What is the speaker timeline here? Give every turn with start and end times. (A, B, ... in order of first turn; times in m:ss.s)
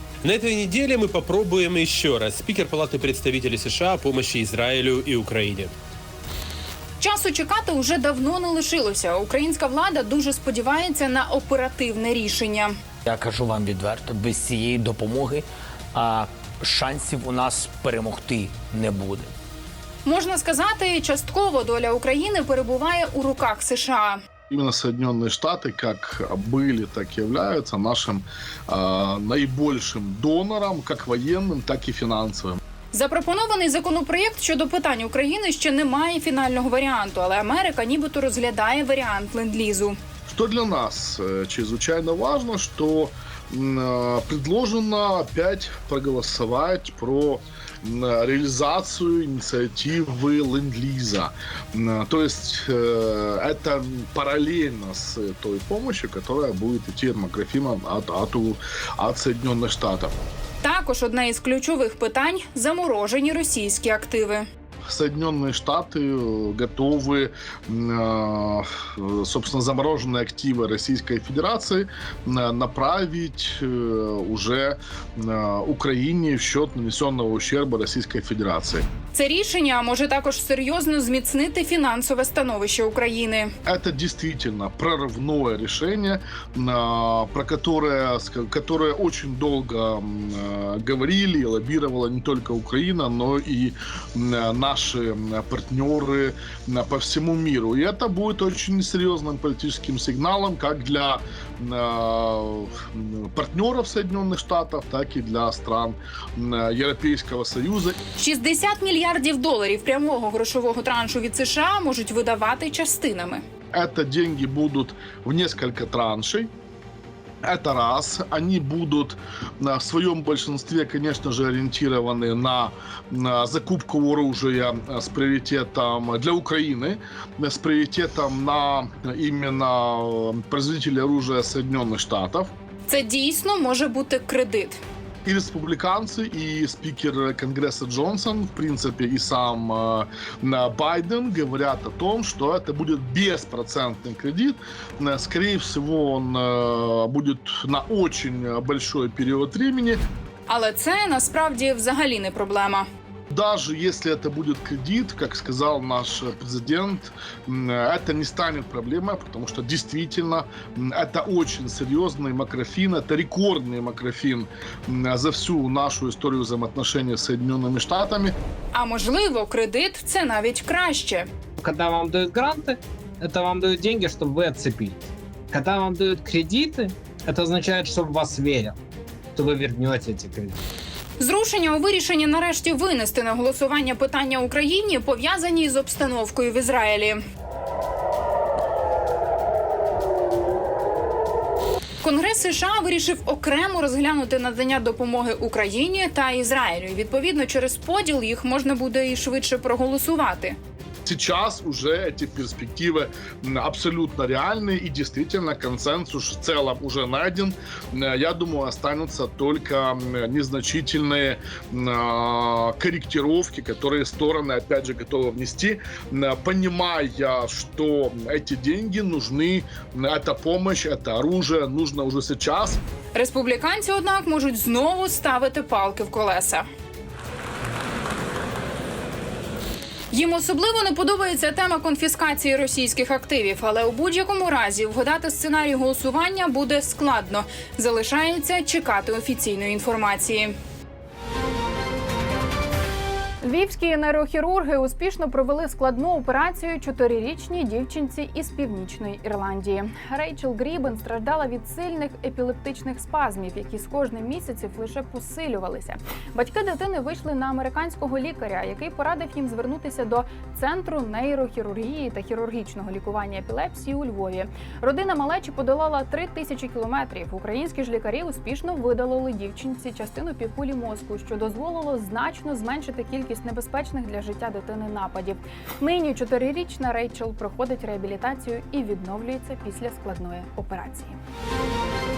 0:00.2-0:05.7 A
0:07.0-0:12.7 B
0:13.0-0:19.3 C
0:20.0-0:24.2 B
0:24.5-0:32.6 D
0:32.9-0:40.0 B
0:40.3-1:00.1 D
1:00.6-1:04.4 B
1:04.9-1:18.8 D
1:19.1-1:23.5 B
1:23.6-1:48.0 D
1:48.2-1:53.4 B
1:53.7-1:56.5 D
1:57.4-2:12.5 D
2:12.9-2:14.8 B
2:15.2-2:30.0 D
2:30.5-2:32.9 B
2:33.3-2:48.3 D
2:48.7-2:51.3 B
2:51.6-2:58.8 E
2:59.3-3:00.6 E
3:01.2-3:07.2 B
3:12.0-3:20.6 B
3:21.0-3:42.8 D
3:43.1-3:46.6 B
3:50.1-4:00.5 B
4:03.4-4:41.2 B